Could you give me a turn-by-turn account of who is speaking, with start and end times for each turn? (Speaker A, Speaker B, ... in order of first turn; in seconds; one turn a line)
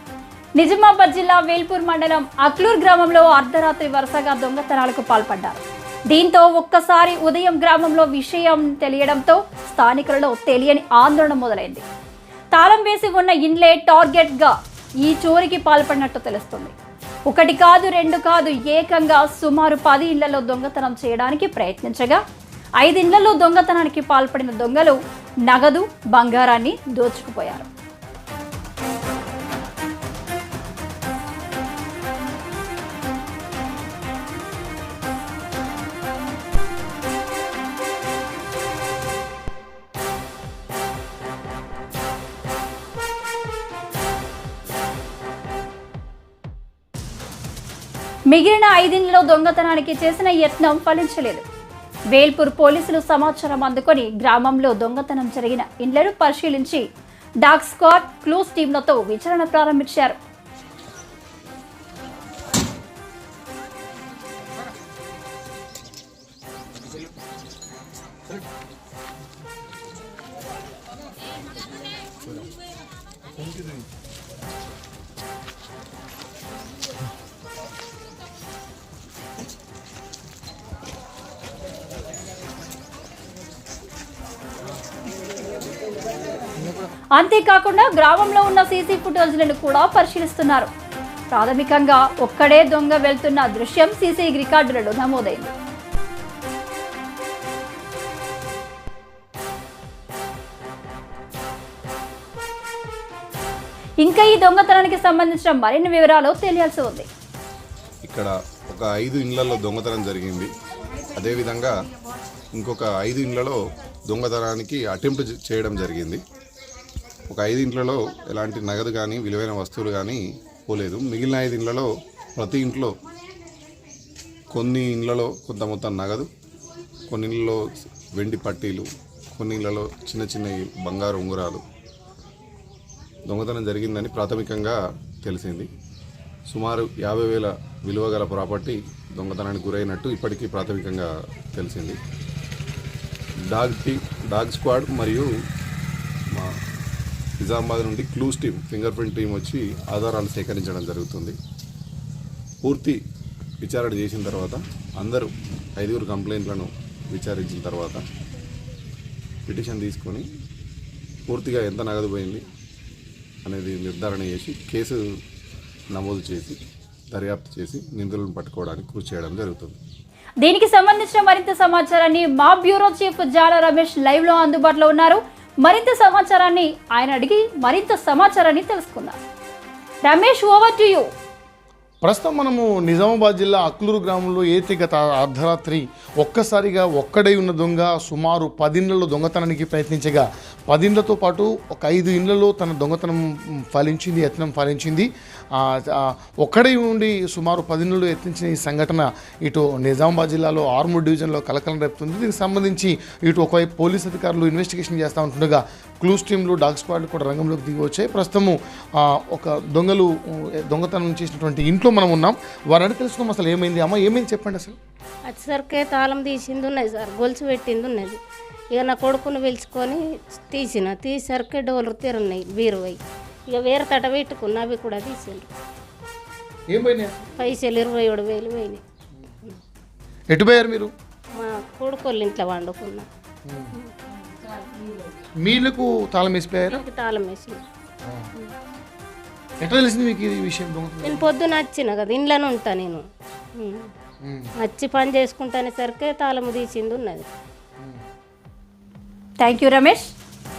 Speaker A: 0.6-11.8
Speaker A: 12.5-16.7
Speaker A: 17.3-22.2
Speaker A: 22.8-27.7
Speaker A: 48.3-51.5
Speaker A: 52.1-56.9
Speaker A: 57.4-60.2
Speaker A: 87.1-90.7
Speaker A: 91.3-95.5
Speaker A: 104.0-107.1
Speaker B: 108.0-110.5
Speaker B: 111.1-111.7
Speaker B: 112.5-113.6
Speaker B: 114.1-116.2
Speaker B: 117.3-122.9
Speaker B: 124.5-126.3
Speaker B: 127.1-131.6
Speaker B: 133.3-135.7
Speaker B: 136.5-142.0
Speaker B: 143.5-145.3
Speaker B: 147.4-151.4
Speaker B: 152.6-153.0
Speaker B: 153.6-158.0
Speaker B: 159.5-160.2
Speaker B: 161.3-162.5
Speaker B: 163.4-165.0
Speaker B: 165.9-166.6
Speaker B: 167.1-169.8
Speaker A: 170.4-179.2
Speaker A: 180.0-181.1
Speaker C: 182.0-214.8
Speaker D: 215.3-218.2
Speaker D: 218.7-225.5
Speaker C: 226.7-227.2
Speaker D: 227.3-228.8
Speaker C: 230.3-230.9
Speaker D: 231.4-233.1
Speaker C: 233.5-233.7
Speaker D: 233.8-235.0
Speaker C: 235.4-236.8
Speaker D: 236.7-237.6
Speaker C: 239.6-241.3
Speaker D: 241.0-243.0
Speaker D: 243.6-243.9
Speaker C: 244.2-244.5
Speaker D: 244.6-247.3
Speaker A: 249.4-250.1